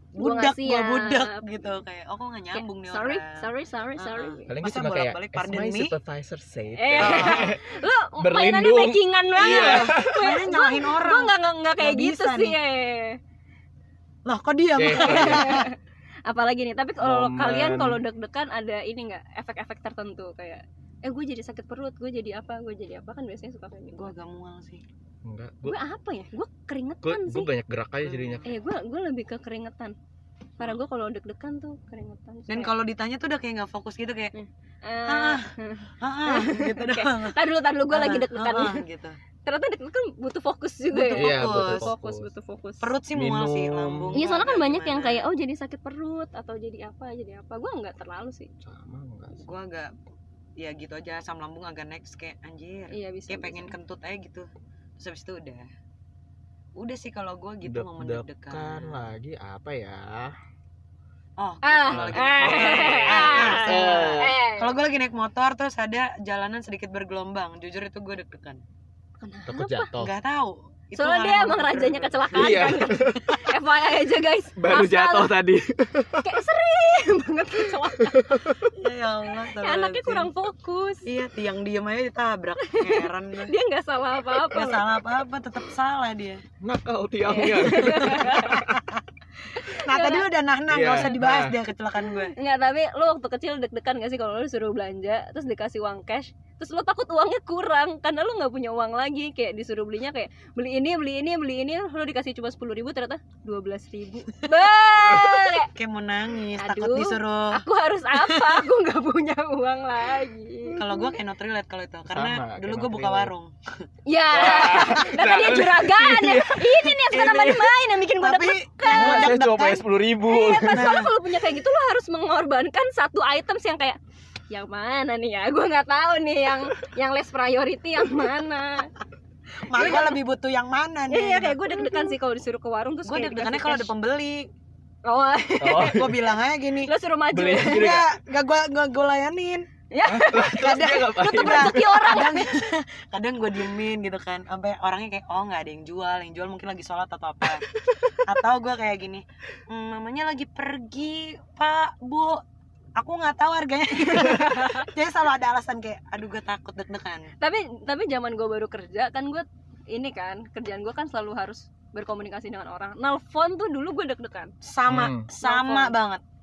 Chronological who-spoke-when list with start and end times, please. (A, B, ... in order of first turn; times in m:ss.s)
0:00.2-0:03.5 A
0:00.2-0:01.4 B
0:02.5-0:04.5 B
0:04.0-0:05.9 A
0:04.5-0:07.6 C
0:06.8-0:13.2 B
0:07.0-0:07.5 A
0:08.2-0:10.3 C
0:09.4-0:12.6 A
0:14.2-0:15.7 A
0:14.8-0:15.6 C
0:15.0-0:15.8 B
0:16.3-0:24.1 B
0:17.0-0:18.0 C
0:23.9-0:24.8 A
0:25.2-0:25.8 C
0:25.6-0:27.5 B
0:27.0-0:28.5 C
0:28.0-0:28.5 A
0:28.4-0:30.0 B
0:30.6-0:32.7 B
0:32.5-0:34.3 A
0:34.3-0:38.8 B
0:35.0-0:35.5 A
0:36.0-0:39.2 A
0:39.4-0:42.9 B
0:40.9-0:41.9 A
0:41.1-0:42.3 C
0:42.8-0:45.3 A
0:43.1-0:44.2 C
0:44.1-0:48.5 B
0:48.6-0:49.5 C
0:49.4-0:49.9 A
0:50.6-0:55.6 A
0:52.9-0:53.7 B
0:56.8-0:59.1 A
0:57.6-1:00.3 C
1:01.4-1:08.6 A
1:01.6-1:04.8 B
1:01.9-1:04.4 C
1:09.2-1:09.9 B
1:09.5-1:10.1 C
1:10.0-1:13.0 A
1:10.9-1:15.3 B
1:12.3-1:13.4 C
1:14.6-1:16.4 C
1:16.2-1:18.4 B
1:17.9-1:18.7 C
1:18.7-1:20.3 A
1:19.6-1:21.1 B
1:21.0-1:23.5 A
1:22.6-1:24.9 B
1:24.5-1:26.4 A
1:26.6-1:28.8 C
1:27.2-1:28.6 B
1:27.8-1:29.0 A
1:29.6-1:30.3 B
1:29.6-1:32.3 A
1:30.7-1:31.6 C
1:32.0-1:45.7 B
1:45.1-1:45.4 C
1:45.2-1:47.6 A
1:46.6-1:51.2 B
1:48.1-1:48.6 A
1:50.7-1:53.5 A
1:52.1-1:53.3 C
1:54.0-1:59.4 B
1:54.3-1:57.7 C
1:58.2-1:59.8 A
1:58.9-2:01.0 C
2:00.2-2:04.0 B
2:00.7-2:01.1 A
2:04.5-2:08.9 B
2:09.6-2:12.1 A
2:09.7-2:10.2 B
2:11.1-2:13.9 B
2:13.1-2:14.5 A
2:15.0-2:16.1 B
2:15.6-2:16.3 C
2:15.8-2:16.9 A
2:16.8-2:17.9 B
2:17.3-2:18.1 C
2:17.6-2:19.7 A
2:19.9-2:22.4 B
2:20.0-2:22.0 C
2:20.4-2:32.4 A
2:27.9-2:28.2 B
2:33.0-2:37.3 A
2:34.0-2:34.9 B
2:37.4-2:44.5 B
2:44.6-2:46.2 A
2:44.9-2:45.3 C
2:45.4-2:45.9 B